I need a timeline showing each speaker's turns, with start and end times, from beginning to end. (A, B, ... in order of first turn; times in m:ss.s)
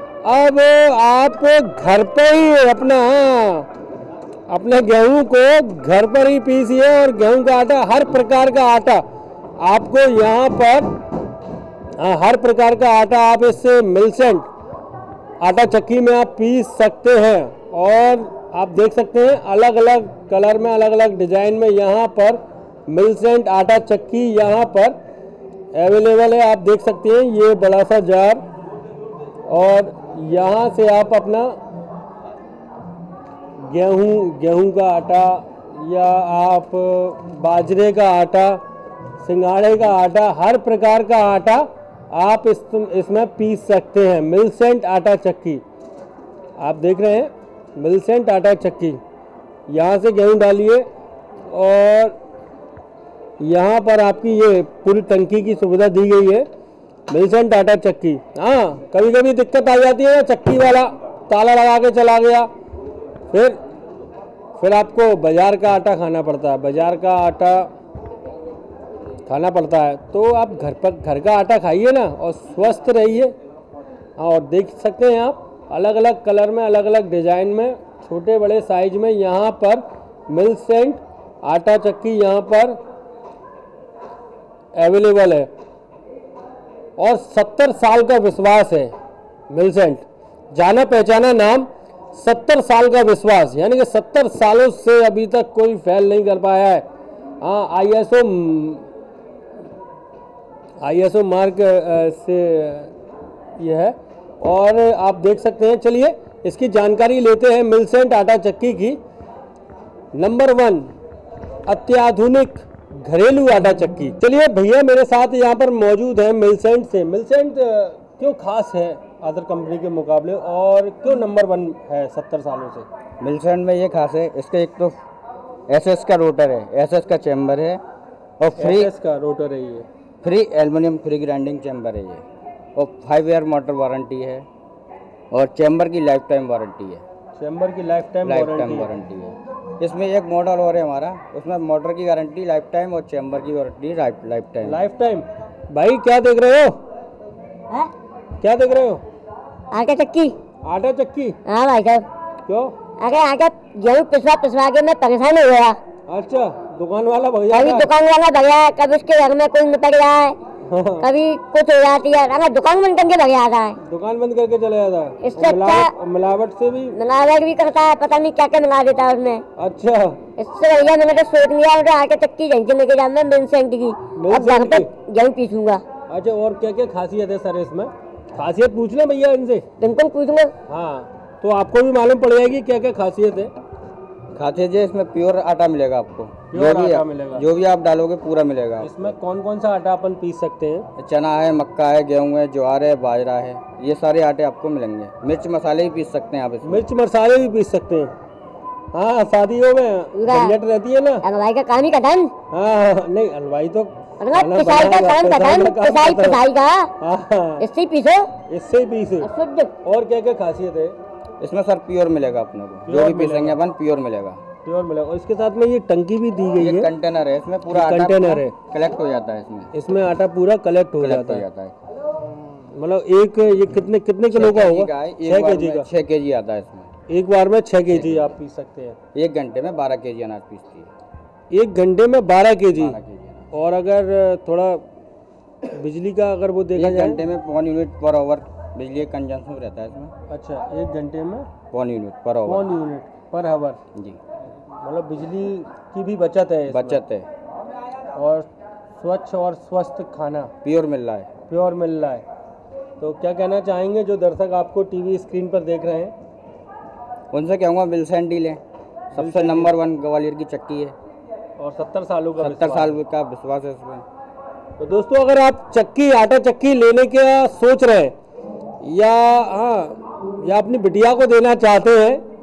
0:00.2-0:03.7 A
0:04.5-0:09.0 A
0:09.6-0:10.9 A
0:12.0-0:14.5 A
0:15.4-0:25.0 A
0:25.7-0:28.4 A
0:29.5-0:31.6 A
0:33.6-0:38.6 A
0:39.2-0:45.6 A
0:46.6-0:49.0 A
0:49.7-0:50.9 A
0:51.4-0:52.2 A
0:53.4-0:56.5 A
0:57.1-1:02.5 A
1:03.3-1:03.6 A
1:04.6-1:07.7 A
1:09.3-1:13.3 A
1:14.2-1:22.8 A
1:24.7-1:25.5 A
1:27.0-1:28.9 A
1:29.5-1:36.8 A
1:37.4-1:38.9 A
1:40.8-1:42.9 A
1:43.6-1:49.0 A
1:50.1-1:50.9 A
1:51.7-2:02.9 A
2:03.2-2:05.0 B
2:05.7-2:07.8 B
2:08.4-2:08.9 B
2:08.6-2:09.9 A
2:10.2-2:12.2 B
2:12.7-2:14.4 B
2:15.3-2:17.0 B
2:17.4-2:18.9 A
2:18.2-2:24.8 B
2:24.6-2:26.8 A
2:28.4-2:29.0 A
2:29.7-2:30.4 C
2:30.6-2:31.4 A
2:31.4-2:32.0 C
2:32.4-2:32.7 A
2:33.0-2:35.8 C
2:36.1-2:37.9 A
2:37.5-2:40.4 C
2:40.6-2:41.1 A
2:41.0-2:43.8 C
2:43.8-2:47.0 A
2:45.2-2:45.9 C
2:46.9-2:49.4 C
2:49.6-2:50.2 A
2:50.4-2:55.8 C
2:54.1-2:54.9 A
2:56.1-2:59.7 A
2:59.8-3:00.5 C
3:00.7-3:03.5 A
3:04.3-3:09.1 B
3:06.5-3:07.5 A
3:08.8-3:10.9 A
3:11.0-3:16.8 B
3:16.6-3:18.1 A
3:18.9-3:21.2 A
3:20.1-3:20.6 C
3:21.2-3:22.3 C
3:22.5-3:26.4 A
3:24.2-3:26.9 C
3:27.0-3:27.6 A
3:27.6-3:28.3 C
3:28.5-3:29.3 A
3:29.2-3:29.7 C
3:29.8-3:31.0 A
3:31.4-3:34.4 B
3:32.8-3:33.6 A
3:34.6-3:36.9 A
3:36.6-3:39.7 B
3:37.7-3:38.5 A
3:39.7-3:41.4 A
3:41.0-3:41.7 B
3:42.7-3:45.9 A
3:44.3-3:46.9 B
3:47.1-3:49.0 A
3:47.9-3:48.4 B
3:49.1-3:50.9 B
3:51.5-3:53.0 A
3:52.7-3:53.5 B
3:53.5-3:54.8 A
3:55.7-3:57.2 A
3:56.7-4:00.1 B
4:00.3-4:01.5 A
4:01.7-4:02.7 B
4:02.4-4:03.8 A
4:04.8-4:07.0 A
4:06.7-4:07.3 B
4:08.1-4:10.5 A
4:10.6-4:11.3 B
4:11.5-4:12.2 A
4:13.0-4:16.1 A
4:17.3-4:21.0 B
4:19.1-4:19.7 A
4:21.6-4:23.0 A
4:22.4-4:24.0 B
4:24.8-4:28.1 A
4:28.8-4:32.2 A